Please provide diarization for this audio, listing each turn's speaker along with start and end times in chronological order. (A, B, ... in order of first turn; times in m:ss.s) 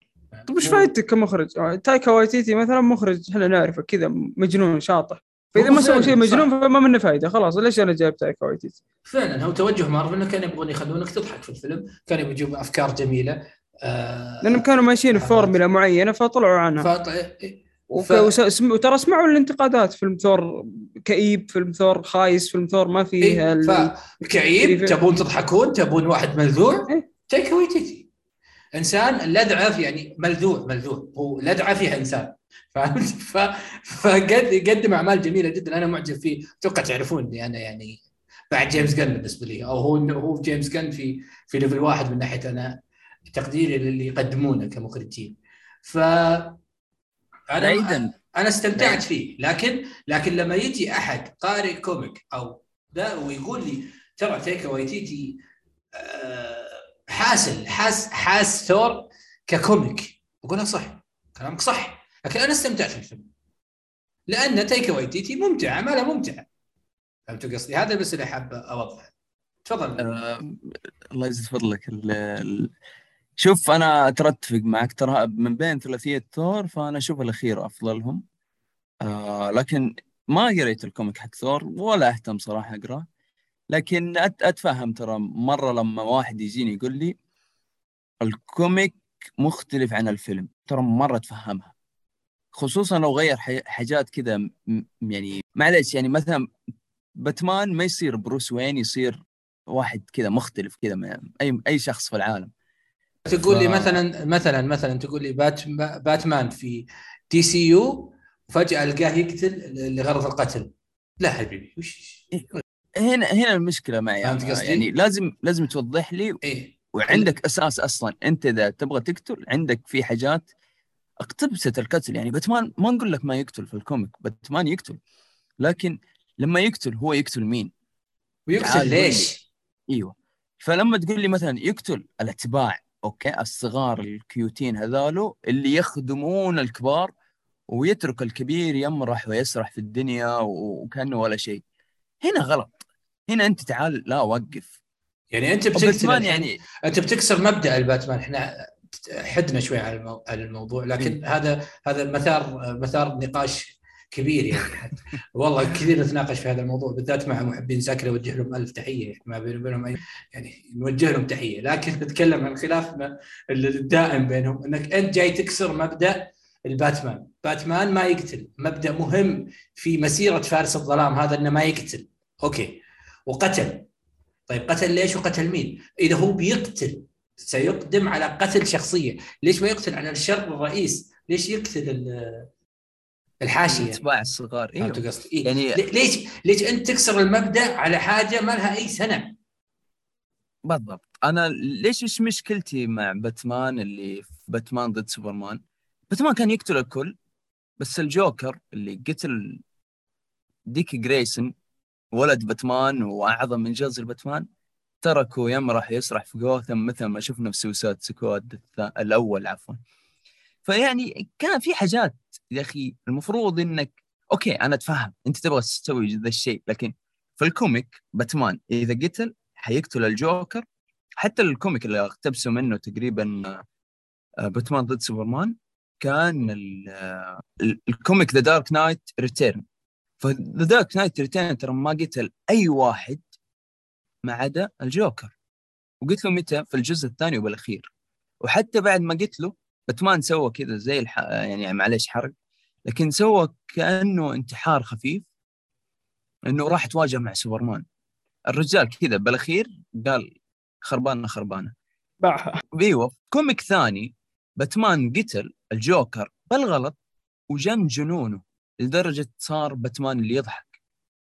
0:00.3-0:00.9 A
0:00.5-0:08.8 B
0:05.6-0:06.5 A
0:09.1-0:15.6 A
0:14.4-0:16.9 B
0:16.8-0:18.3 A
0:17.9-0:25.0 B
0:23.2-0:28.1 A
0:28.8-0:38.0 A
0:38.5-0:42.8 A
0:43.3-0:46.6 A
0:47.5-0:55.4 A
0:47.6-0:48.1 C
0:48.8-0:49.0 C
0:56.0-1:03.2 A
1:04.3-1:06.5 A
1:07.3-1:09.1 A
1:09.6-1:10.2 A
1:10.0-1:10.6 C
1:11.1-1:12.7 C
1:13.4-1:18.2 C
1:19.0-1:23.1 C
1:23.7-1:27.2 C
1:28.2-1:31.7 C
1:32.5-1:36.4 C
1:37.2-1:42.5 C
1:43.3-1:50.7 A
1:43.5-1:44.0 C
1:51.2-1:52.6 A
1:52.3-1:56.4 C
1:54.2-1:54.9 A
1:56.4-1:57.3 A
1:56.9-2:00.5 C
2:01.2-2:05.0 C
2:05.6-2:07.7 C
2:08.5-2:09.4 A
2:08.6-2:09.3 C
2:09.9-2:17.1 C
2:17.7-2:21.6 C
2:22.2-2:22.8 C
2:23.3-2:24.8 C
2:25.3-2:53.9 A
2:25.7-2:26.6 C
2:54.5-3:02.5 A
3:03.4-3:04.0 A
3:03.7-3:05.8 C
3:04.8-3:09.4 A
3:10.7-3:15.6 C
3:16.1-3:17.2 C
3:17.8-3:19.6 C
3:20.7-3:21.5 C
3:22.1-3:24.5 C
3:25.0-3:29.8 C
3:30.6-3:40.6 C
3:41.2-3:43.6 C
3:44.4-3:49.6 C
3:50.2-3:53.2 C
3:54.2-3:55.3 C
3:56.0-3:57.9 C
3:58.4-4:02.3 C
4:02.9-4:05.3 C
4:06.5-4:07.8 C
4:08.5-4:10.3 C
4:10.8-4:11.7 C
4:12.2-4:12.6 B
4:12.7-4:17.0 C
4:17.5-4:20.7 C